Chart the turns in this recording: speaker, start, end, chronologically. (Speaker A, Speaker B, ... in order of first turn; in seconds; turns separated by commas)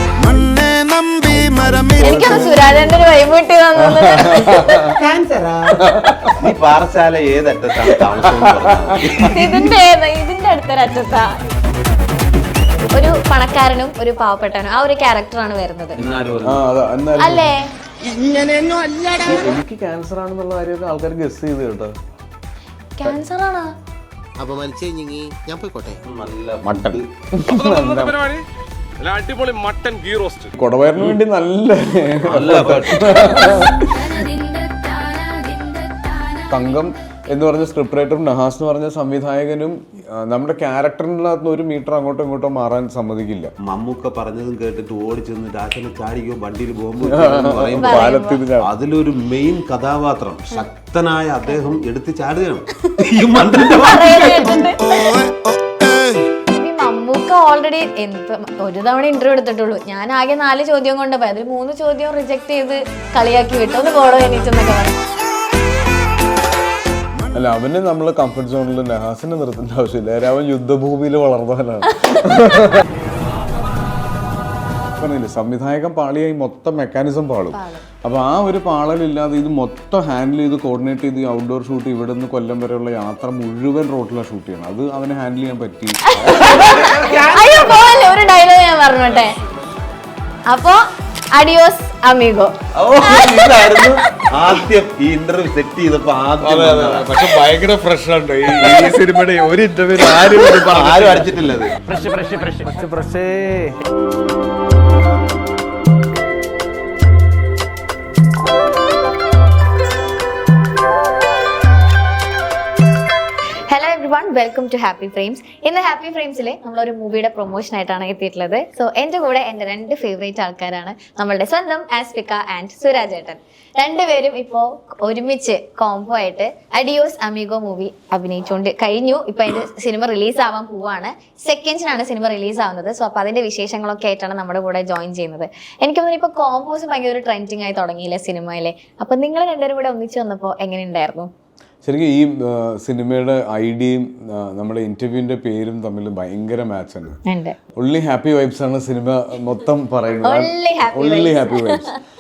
Speaker A: 0.2-3.1, Speaker B: 0.3-2.1, Speaker C: 1.9-4.9, Speaker A: 3.8-4.9, Speaker D: 4.8-9.4, Speaker A: 5.8-6.3, Speaker A: 7.9-9.6, Speaker C: 9.2-11.4, Speaker C: 12.9-16.0, Speaker D: 16.0-16.7, Speaker A: 16.4-17.5, Speaker C: 17.2-17.7, Speaker B: 18.1-19.4, Speaker A: 19.2-21.9, Speaker C: 23.0-23.7, Speaker B: 24.4-26.0, Speaker D: 26.0-27.1, Speaker A: 26.6-28.2, Speaker E: 27.5-28.4, Speaker E: 29.0-30.5, Speaker A: 30.6-34.1, Speaker D: 32.3-33.6, Speaker C: 33.2-36.5, Speaker A: 36.5-43.5, Speaker D: 43.6-54.7, Speaker A: 47.0-48.7, Speaker C: 47.8-48.4, Speaker C: 53.8-55.2, Speaker B: 55.8-56.2, Speaker C: 56.5-65.0, Speaker A: 67.3-72.9, Speaker A: 75.0-86.4, Speaker C: 77.5-77.8, Speaker C: 86.1-89.3, Speaker D: 86.4-87.9, Speaker C: 90.5-90.8, Speaker C: 91.3-94.2, Speaker D: 92.8-97.2, Speaker A: 96.4-101.7, Speaker D: 100.2-101.8, Speaker B: 101.9-103.7, Speaker E: 101.9-103.7, Speaker C: 113.7-141.3, Speaker A: 141.8-147.2, Speaker C: 147.3-147.6, Speaker A: 147.8-151.9, Speaker C: 150.2-152.0